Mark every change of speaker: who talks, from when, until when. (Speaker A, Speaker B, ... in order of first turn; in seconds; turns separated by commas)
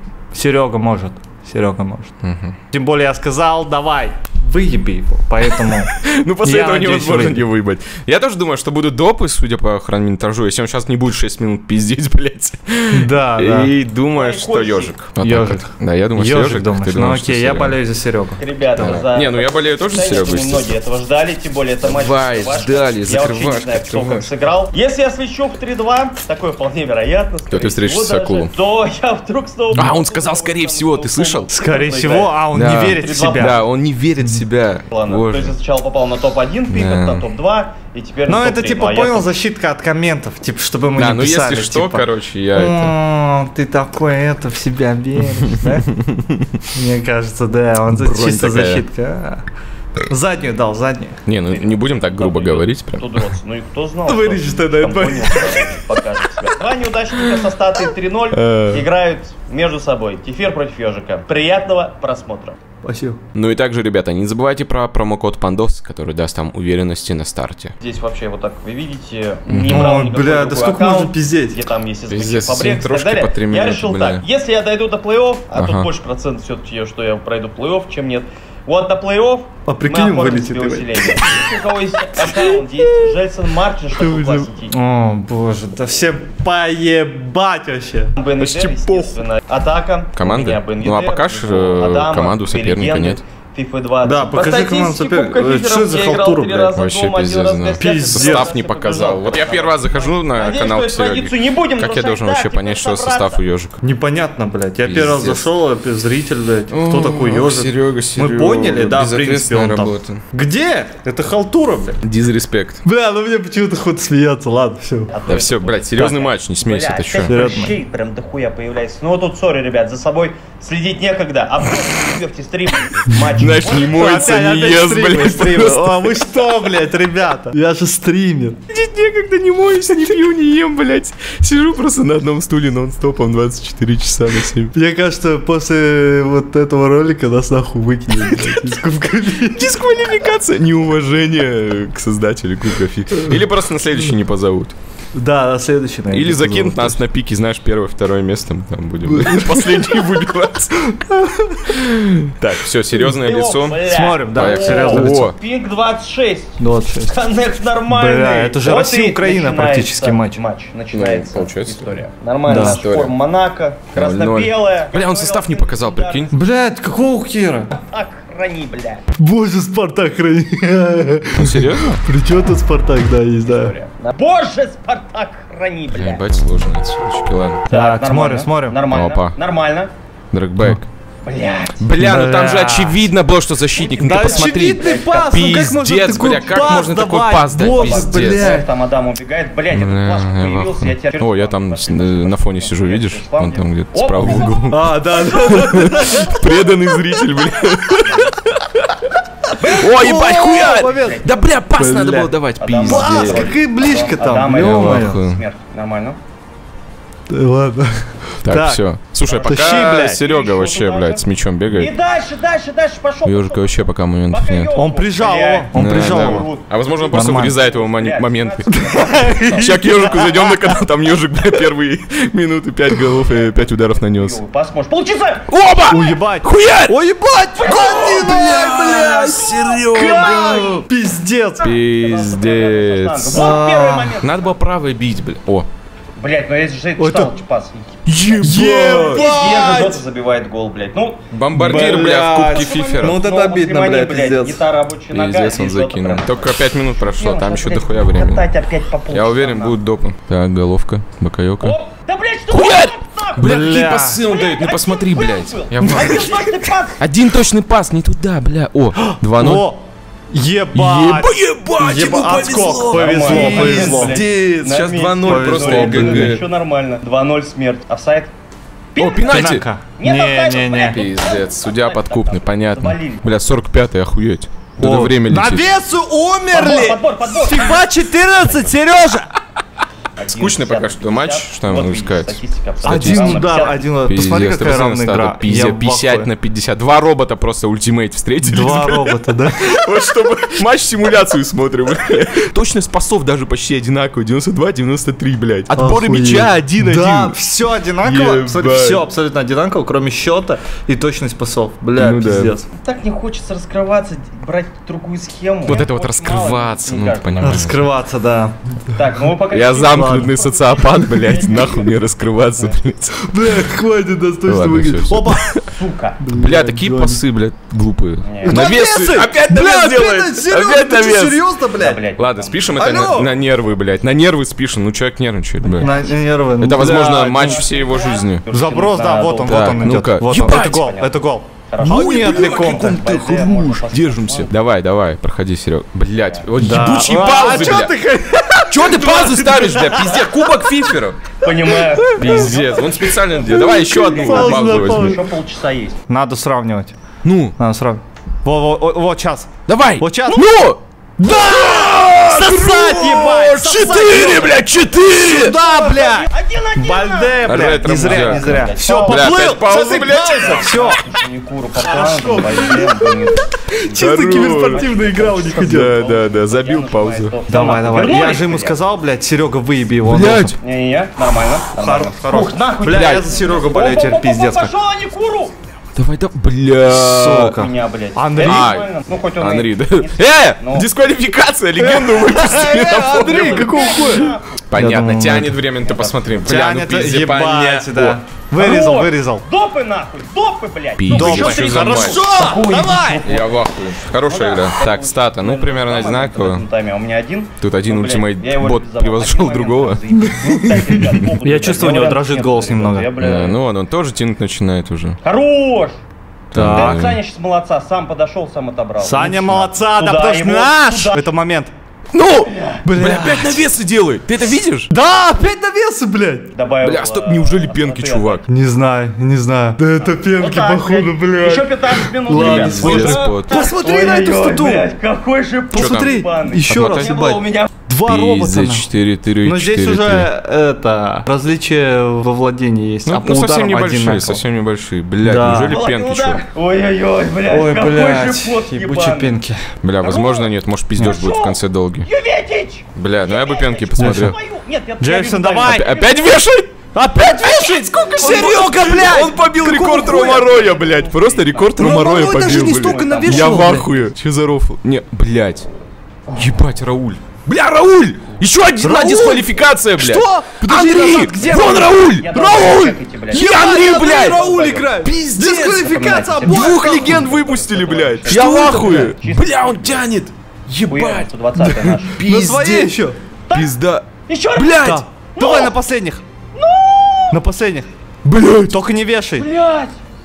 Speaker A: 0.3-2.1, Speaker B: 2.2-2.5, Speaker A: 2.7-7.4, Speaker B: 5.6-17.8, Speaker A: 12.9-13.7, Speaker C: 14.2-14.9, Speaker A: 15.2-19.0, Speaker C: 18.4-33.6, Speaker B: 18.8-20.7, Speaker B: 21.8-24.3, Speaker B: 27.5-28.5, Speaker B: 29.7-31.5, Speaker A: 31.5-33.6, Speaker B: 32.5-35.5, Speaker C: 34.9-39.3, Speaker B: 36.7-37.2, Speaker A: 38.3-45.9, Speaker B: 40.9-42.9, Speaker A: 46.7-49.4, Speaker B: 47.9-48.8, Speaker A: 50.1-51.2, Speaker B: 51.2-53.2, Speaker C: 51.5-62.6, Speaker A: 54.0-55.8, Speaker B: 58.3-58.8, Speaker A: 62.8-63.2, Speaker B: 63.3-67.7, Speaker C: 67.8-84.7, Speaker B: 69.5-69.9, Speaker A: 69.7-71.6, Speaker B: 72.1-74.2, Speaker B: 75.5-75.9, Speaker A: 79.7-81.5, Speaker A: 82.2-83.1, Speaker A: 83.9-88.1, Speaker C: 88.2-103.4, Speaker B: 88.4-89.2, Speaker B: 90.1-93.2, Speaker A: 94.0-96.7, Speaker B: 96.8-103.8, Speaker A: 97.8-98.5, Speaker A: 103.8-112.0, Speaker B: 104.8-105.5, Speaker B: 106.7-110.2, Speaker B: 112.0-112.8, Speaker A: 112.8-115.1, Speaker C: 115.1-124.7, Speaker B: 115.3-117.3, Speaker A: 117.2-117.8, Speaker B: 123.3-126.2, Speaker A: 123.8-128.6, Speaker B: 128.7-134.7, Speaker A: 134.7-139.7, Speaker B: 138.1-138.8, Speaker B: 139.4-144.7, Speaker A: 145.1-147.0, Speaker B: 146.1-150.9, Speaker A: 149.1-150.1, Speaker A: 151.1-151.7, Speaker B: 151.7-155.3, Speaker C: 153.0-166.3, Speaker A: 153.9-155.3, Speaker A: 156.6-157.1, Speaker A: 157.9-160.4, Speaker B: 160.9-161.9, Speaker A: 162.5-162.8, Speaker B: 162.5-163.1, Speaker B: 163.9-166.3, Speaker A: 166.3-167.7, Speaker C: 167.7-169.0, Speaker A: 169.2-173.7, Speaker B: 171.3-172.0, Speaker C: 173.4-176.2, Speaker B: 175.9-177.6, Speaker A: 177.7-178.8, Speaker C: 177.7-179.9, Speaker B: 178.9-179.3, Speaker B: 180.3-180.9, Speaker C: 181.2-181.8, Speaker B: 181.8-188.5, Speaker A: 182.0-183.1, Speaker C: 183.8-185.4, Speaker A: 184.0-188.7, Speaker C: 187.7-194.5, Speaker B: 189.7-198.9, Speaker A: 194.2-196.7, Speaker C: 197.8-198.3, Speaker C: 199.6-201.6, Speaker B: 199.7-203.5, Speaker A: 199.8-202.3, Speaker C: 202.6-206.2, Speaker A: 202.8-205.2, Speaker B: 204.5-205.4, Speaker A: 207.3-208.8, Speaker B: 208.4-211.9, Speaker C: 209.2-220.8, Speaker A: 209.4-210.2, Speaker B: 213.2-214.7, Speaker A: 214.7-216.5, Speaker B: 215.7-218.7, Speaker A: 217.1-217.6, Speaker A: 218.7-220.2, Speaker B: 219.5-224.4, Speaker C: 223.2-225.4, Speaker B: 225.5-226.9, Speaker A: 225.9-229.3, Speaker B: 227.6-230.8, Speaker C: 227.6-230.8, Speaker A: 229.9-231.7, Speaker B: 231.6-233.6, Speaker C: 231.6-234.5, Speaker A: 233.3-234.2, Speaker B: 234.2-235.7, Speaker C: 236.2-237.8, Speaker A: 237.0-237.3, Speaker B: 238.1-239.3, Speaker A: 238.3-240.0, Speaker C: 238.9-249.8, Speaker B: 241.3-243.2, Speaker A: 241.5-244.7, Speaker B: 245.1-248.5, Speaker B: 249.1-251.7, Speaker C: 251.6-257.0, Speaker B: 252.5-256.5, Speaker A: 253.4-254.2, Speaker B: 257.0-259.7, Speaker A: 259.0-264.2, Speaker B: 260.7-266.4, Speaker C: 262.9-268.3, Speaker A: 265.2-266.4, Speaker C: 268.9-273.3, Speaker B: 269.0-269.6, Speaker A: 269.2-271.0, Speaker B: 270.9-275.7, Speaker A: 274.8-279.3, Speaker C: 276.5-277.9, Speaker C: 278.4-278.7, Speaker C: 280.2-283.8, Speaker B: 280.3-283.4, Speaker A: 282.8-286.3, Speaker B: 284.0-297.4, Speaker A: 288.4-289.8, Speaker A: 295.7-302.7, Speaker B: 298.0-299.0, Speaker B: 302.0-302.5, Speaker C: 302.8-307.7, Speaker B: 305.6-307.8, Speaker A: 307.4-308.6, Speaker C: 308.9-312.8, Speaker B: 309.5-313.6, Speaker A: 309.9-310.3, Speaker A: 313.2-315.5, Speaker B: 314.4-315.7, Speaker C: 315.6-316.2, Speaker A: 316.2-317.2, Speaker B: 316.3-321.5, Speaker C: 318.2-318.6, Speaker A: 318.4-322.0, Speaker C: 321.7-323.3, Speaker B: 322.2-325.9, Speaker A: 322.8-323.3, Speaker A: 325.8-327.6, Speaker C: 325.8-326.1, Speaker B: 326.6-328.4, Speaker C: 326.7-331.1, Speaker A: 328.5-333.0, Speaker B: 329.4-330.9, Speaker C: 331.7-334.5, Speaker B: 331.8-337.9, Speaker C: 336.2-336.5, Speaker A: 336.6-340.6, Speaker B: 338.6-341.2, Speaker C: 341.4-346.0, Speaker A: 341.7-342.5, Speaker B: 342.1-345.2, Speaker A: 343.6-345.3, Speaker A: 346.1-346.9, Speaker B: 347.2-347.6, Speaker A: 347.6-354.6, Speaker B: 349.7-355.6, Speaker A: 355.2-361.0, Speaker C: 355.5-368.8, Speaker B: 357.4-361.0, Speaker A: 361.8-366.0, Speaker B: 363.9-367.3, Speaker A: 367.5-370.5, Speaker B: 370.0-370.5, Speaker C: 370.6-375.5, Speaker A: 371.7-374.7, Speaker B: 375.9-377.6, Speaker A: 376.9-378.7, Speaker C: 377.5-380.9, Speaker B: 378.4-378.9, Speaker B: 379.4-388.2, Speaker A: 381.8-385.6, Speaker C: 382.8-384.6, Speaker C: 385.8-386.4, Speaker A: 386.4-389.4, Speaker C: 388.5-403.6, Speaker B: 391.0-392.2, Speaker A: 391.1-393.2, Speaker B: 393.2-396.6, Speaker B: 397.6-400.0, Speaker A: 400.2-403.1, Speaker B: 403.2-405.2, Speaker C: 405.2-406.0, Speaker A: 406.5-407.1, Speaker B: 406.5-407.2, Speaker C: 406.6-411.2, Speaker A: 409.0-411.7, Speaker B: 412.1-414.9, Speaker C: 412.4-412.8, Speaker A: 412.9-413.7, Speaker A: 414.9-416.5, Speaker C: 416.5-418.5, Speaker B: 416.8-418.4, Speaker A: 418.5-424.9, Speaker C: 420.0-427.7, Speaker B: 422.3-423.5, Speaker A: 425.7-427.2, Speaker B: 425.7-426.1, Speaker B: 426.7-427.4, Speaker A: 427.9-428.9, Speaker B: 428.0-430.3, Speaker A: 429.4-434.4, Speaker B: 433.0-436.4, Speaker A: 435.2-435.8, Speaker C: 435.7-439.3, Speaker A: 437.5-439.6, Speaker B: 439.8-442.1, Speaker C: 440.0-446.4, Speaker B: 442.9-444.4, Speaker A: 444.0-444.3, Speaker A: 445.0-445.9, Speaker B: 445.6-455.7, Speaker A: 446.9-450.3, Speaker C: 449.9-453.7, Speaker A: 451.8-453.9, Speaker C: 456.3-456.6, Speaker B: 456.3-465.8, Speaker A: 458.8-467.3, Speaker C: 461.1-464.7, Speaker C: 465.6-470.1, Speaker B: 466.4-472.9, Speaker A: 468.3-469.1, Speaker C: 470.9-472.2, Speaker A: 472.2-473.2, Speaker C: 473.5-473.7, Speaker B: 473.5-475.0, Speaker C: 474.3-475.7, Speaker A: 474.8-476.2, Speaker C: 476.5-477.4, Speaker A: 477.3-477.9, Speaker B: 478.2-478.7, Speaker A: 478.4-479.5, Speaker C: 479.4-480.0